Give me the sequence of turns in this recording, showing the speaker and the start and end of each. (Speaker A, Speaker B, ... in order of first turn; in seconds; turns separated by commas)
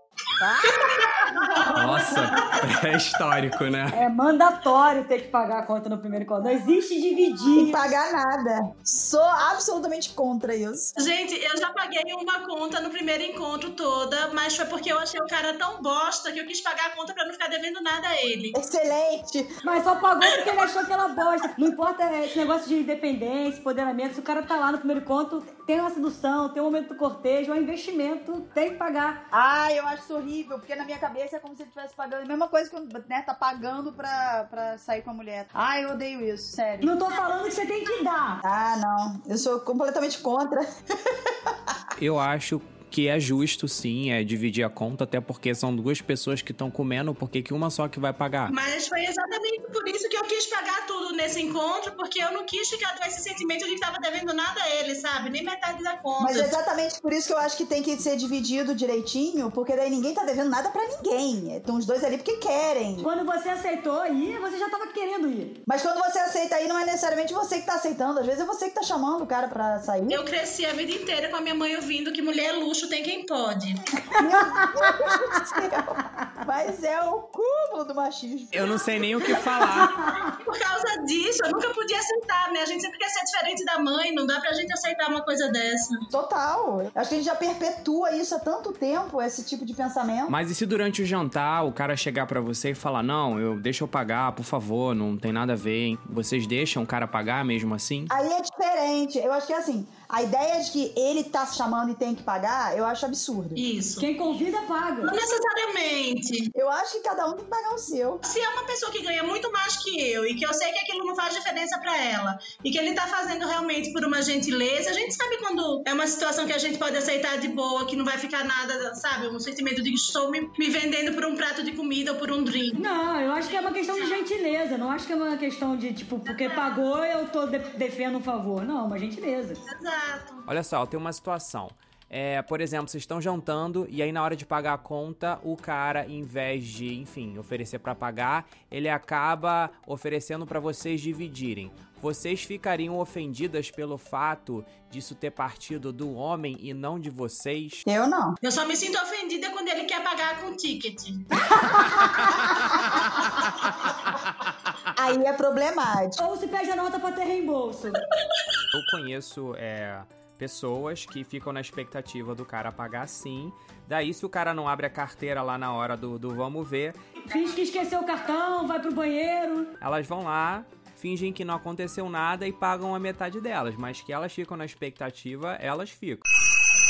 Speaker A: 0.4-1.8, Speaker B: 1.5-2.5, Speaker C: 1.7-4.0, Speaker D: 3.9-7.9, Speaker A: 7.5-11.0, Speaker B: 11.0-18.6, Speaker A: 18.5-19.5, Speaker D: 19.6-29.2, Speaker A: 29.3-37.0, Speaker D: 36.8-38.4, Speaker A: 38.4-41.7, Speaker C: 42.0-48.5, Speaker B: 48.5-56.6, Speaker A: 56.2-63.1, Speaker D: 63.0-65.6, Speaker A: 65.7-70.2, Speaker B: 70.1-73.9, Speaker A: 74.1-78.9, Speaker D: 74.2-75.4, Speaker C: 78.5-79.9, Speaker B: 79.8-86.0, Speaker A: 86.1-90.4, Speaker C: 90.3-98.1, Speaker A: 98.1-103.6, Speaker B: 103.5-104.1, Speaker D: 104.0-105.2, Speaker B: 105.0-106.5, Speaker A: 106.5-108.2, Speaker B: 108.2-122.9, Speaker D: 122.8-129.6, Speaker B: 123.5-124.2, Speaker B: 126.2-126.8, Speaker B: 129.7-130.4, Speaker C: 130.5-147.8, Speaker A: 147.9-148.4, Speaker B: 148.4-151.4, Speaker A: 154.9-156.2, Speaker D: 156.2-158.0, Speaker B: 158.2-158.6, Speaker C: 158.7-167.0, Speaker D: 167.3-169.8, Speaker C: 169.8-176.2